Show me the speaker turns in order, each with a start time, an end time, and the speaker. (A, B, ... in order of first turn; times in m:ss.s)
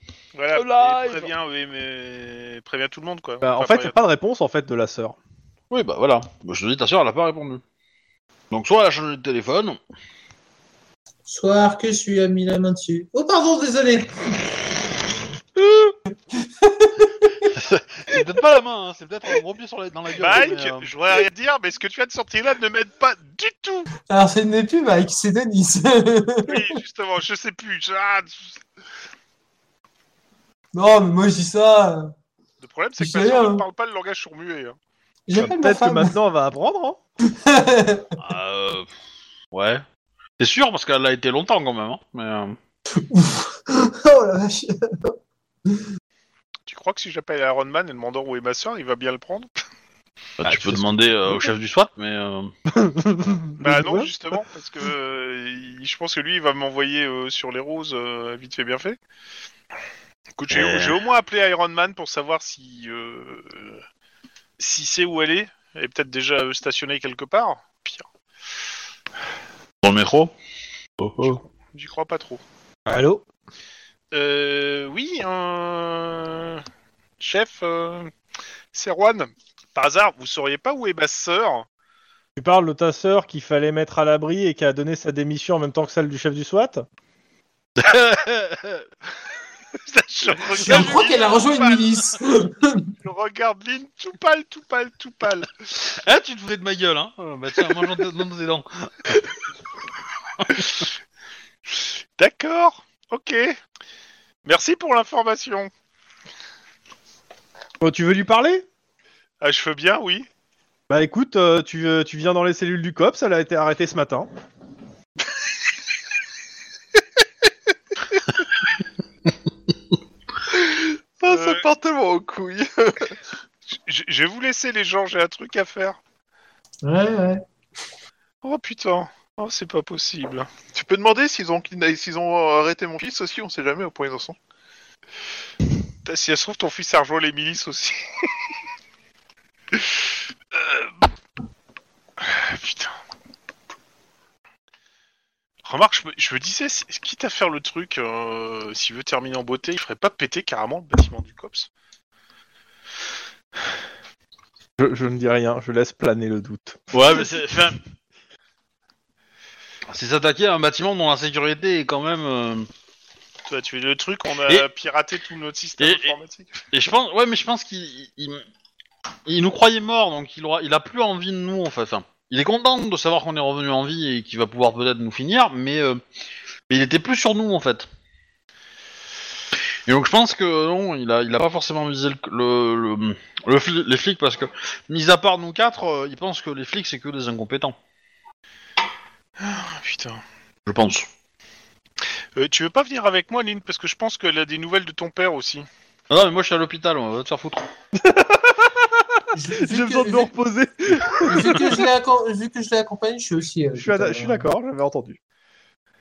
0:00.3-0:04.0 A
0:00.5-0:01.3 B
0:03.4-0:05.2 C
0:05.7-0:07.6 B
0:08.5-0:09.8 B
0:11.3-0:14.4 D
0:16.3-0:17.4 D
0:17.5-0:20.9 B
0:20.2-0:23.9 A
0:24.1-0:26.8 D
0:26.4-0:28.6 A
0:30.7-0:32.1 D
0:32.6-0:34.8 A
0:33.0-0:33.6 D
0:35.3-0:36.1 D
0:35.4-0:37.0 C
0:37.4-0:38.1 D
0:38.2-0:38.9 B
0:39.5-0:39.8 B
0:40.4-0:42.6 B
0:43.0-0:45.2 D
0:46.7-0:49.5 A
0:50.4-0:52.5 B
0:50.4-0:51.5 C
0:52.7-0:54.1 C
0:53.6-0:59.0 A
1:00.4-1:03.8 A
1:00.5-1:00.9 B
1:04.6-1:08.1 A
1:09.8-1:10.3 B
1:11.0-1:11.4 B
1:11.2-1:12.4 A
1:12.9-1:13.2 C
1:14.1-1:16.6 A
1:17.2-1:18.1 A
1:18.7-1:21.7 A
1:22.4-1:26.8 C
1:27.8-1:28.9 B
1:29.8-1:32.1 A
1:30.6-1:32.9 D
1:33.0-1:35.6 A
1:35.8-1:39.2 B
1:40.4-1:40.7 B
1:42.2-1:43.6 A
1:44.4-1:45.7 A
1:47.8-1:48.6 C
1:49.4-1:50.3 A
1:50.9-1:54.3 C
2:00.5-2:03.2 E
2:01.3-2:01.6 A
2:03.7-2:06.0 A
2:06.8-2:07.4 D
2:08.4-2:10.5 A
2:10.7-2:14.4 E
2:16.0-2:18.0 A
2:20.5-2:20.9 A
2:22.2-2:22.9 A
2:25.6-2:31.7 A
2:34.8-2:37.2 C
2:36.9-2:37.8 B
2:39.9-2:42.7 B
2:43.5-2:46.6 A
2:45.8-2:46.2 B
2:46.7-2:48.4 B
2:49.3-2:56.0 B
2:56.7-2:57.9 B
2:59.9-3:07.8 B
3:09.4-3:10.2 A
3:10.7-3:11.1 B
3:12.4-3:15.7 A
3:16.1-3:17.7 B
3:18.0-3:21.8 C
3:19.3-3:20.3 D
3:21.2-3:24.4 D
3:23.8-3:25.2 C